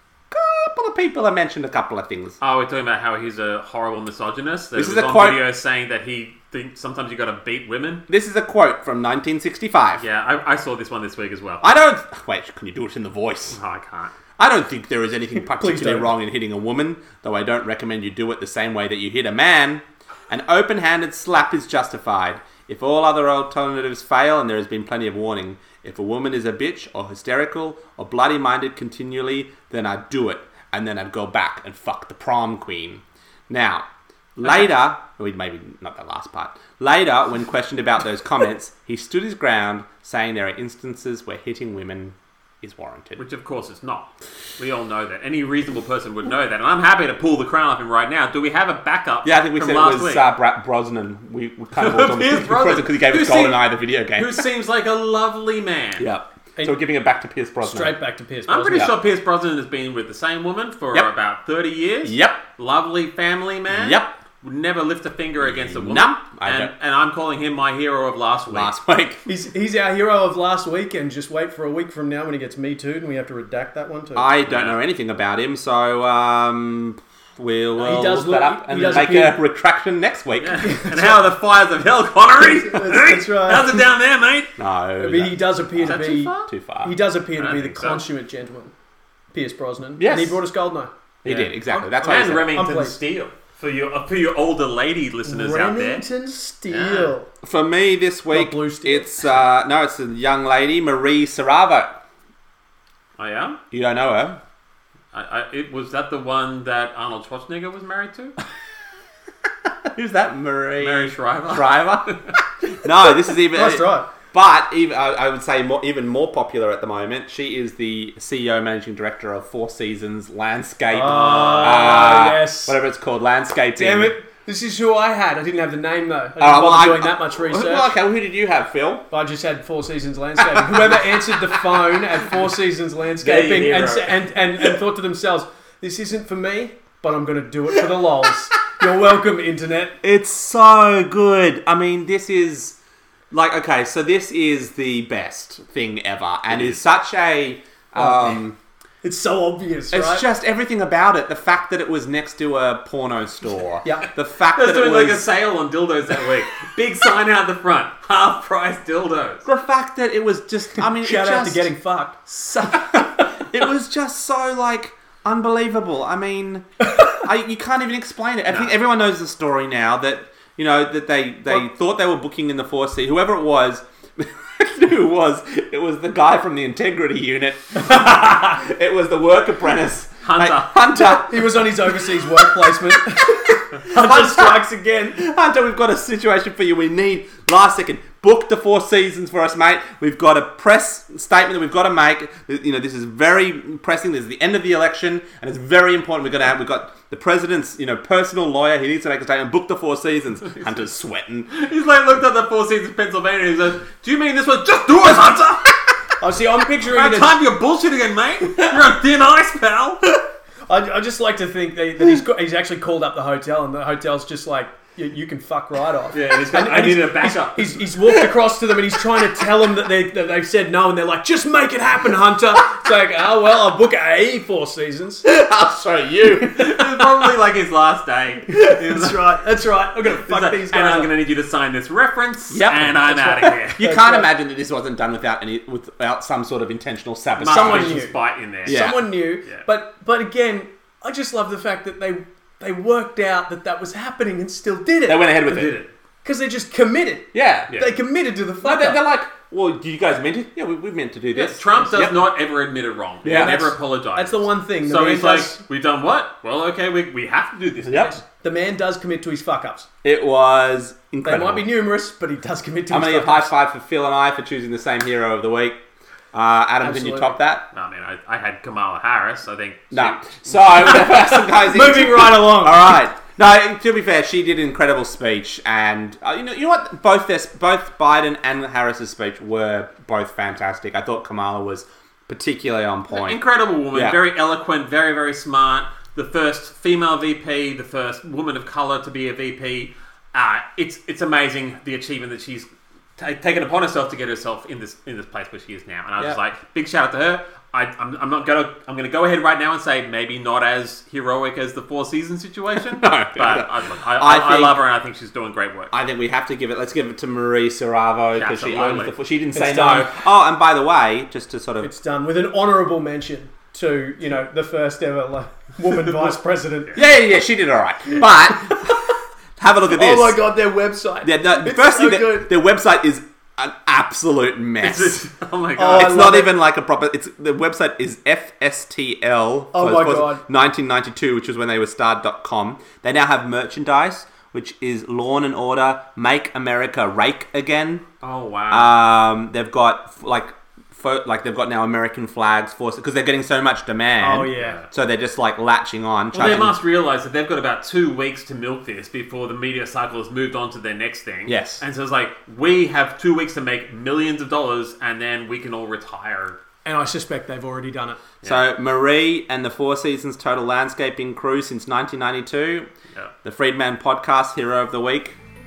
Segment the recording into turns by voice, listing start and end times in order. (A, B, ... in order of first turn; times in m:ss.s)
0:00.3-0:02.4 A
0:02.4-0:08.0 B
0:04.8-0:05.4 A
0:08.1-0:10.0 A
0:10.0-0:11.6 B
0:11.6-0:13.6 A
0:13.5-0:14.1 B
0:14.4-0:43.2 A
0:15.4-0:16.1 C
0:43.2-0:50.3 B
0:49.2-0:54.4 A
0:51.8-0:56.1 B
0:56.0-0:58.0 A
0:56.6-0:56.8 C
0:57.6-0:58.9 C
0:58.5-1:08.7 B
1:02.0-1:02.4 A
1:03.7-1:04.1 A
1:05.4-1:06.7 A
1:08.5-1:09.2 A
1:09.3-1:14.3 C
1:14.2-1:20.9 A
1:14.5-1:14.8 B
1:17.8-1:19.4 C
1:20.4-1:24.5 B
1:20.6-1:21.2 C
1:22.4-1:23.8 C
1:24.6-1:27.0 A
1:25.0-1:28.7 C
1:25.8-1:26.5 B
1:27.4-1:28.1 B
1:29.3-1:30.9 C
1:30.0-1:30.4 A
1:31.2-1:32.6 A
1:31.2-1:36.0 B
1:32.4-1:33.0 C
1:35.2-1:37.3 C
1:36.7-1:37.1 B
1:37.4-1:42.0 A
1:38.3-1:39.2 C
1:43.2-1:43.6 B
1:43.7-1:44.4 A
1:45.1-1:48.4 B
1:49.8-1:52.2 A
1:50.8-1:52.3 B
1:52.7-2:04.2 A
1:53.5-1:54.1 C
2:00.9-2:02.8 C
2:01.0-2:02.0 B
2:03.8-2:07.9 C
2:06.4-2:09.0 A
2:09.1-2:20.0 C
2:13.2-2:14.3 B
2:20.0-2:22.8 A
2:23.3-2:28.6 A
2:28.0-2:28.4 C
2:29.0-2:30.3 C
2:29.9-2:35.3 A
2:34.5-2:39.4 B
2:39.4-2:41.7 A
2:40.8-2:43.3 C
2:42.6-3:21.5 A
3:00.2-3:00.8 B
3:01.0-3:05.2 C
3:21.5-3:25.8 B
3:26.2-3:27.4 C
3:26.9-3:30.0 B
3:30.7-3:45.2 C
3:36.1-3:37.8 B
3:45.2-3:46.8 A
3:46.5-3:49.3 B
3:48.5-3:51.1 C
3:50.1-3:53.8 B
3:52.5-3:58.0 A
3:53.1-3:54.3 C
3:57.4-3:59.6 B
3:57.4-4:05.5 C
3:58.7-3:59.1 A
4:05.1-4:05.8 A
4:05.5-4:05.9 B
4:06.2-4:09.0 C
4:07.3-4:07.7 A
4:08.6-4:12.2 A
4:11.3-4:18.2 B
4:13.2-4:13.7 A
4:13.3-4:15.6 C
4:17.8-4:18.2 A
4:18.3-4:19.9 C
4:20.0-4:21.7 A
4:21.2-4:23.5 C
4:22.9-4:25.8 A
4:26.3-4:27.6 A
4:26.8-4:27.4 C
4:27.7-4:31.0 B
4:29.9-4:43.4 A
4:31.1-4:32.9 C
4:43.1-5:05.9 B
4:43.9-4:44.2 A
5:02.9-5:04.8 A
5:05.9-5:11.9 A
5:08.3-5:09.2 B
5:09.5-5:10.1 C
5:11.8-5:17.0 C
5:16.9-5:20.4 A
5:19.9-5:22.5 C
5:21.2-5:25.2 A
5:24.8-5:26.1 B
5:25.8-5:26.5 C
5:25.9-5:38.0 A
5:29.7-5:30.4 C
5:38.2-5:39.0 B
5:38.7-5:46.8 A
5:44.2-5:44.8 C
5:44.6-5:44.9 B
5:46.3-5:56.6 B
5:51.5-5:51.8 A
5:56.8-5:58.2 C
5:58.4-6:02.9 A
6:03.4-6:05.4 A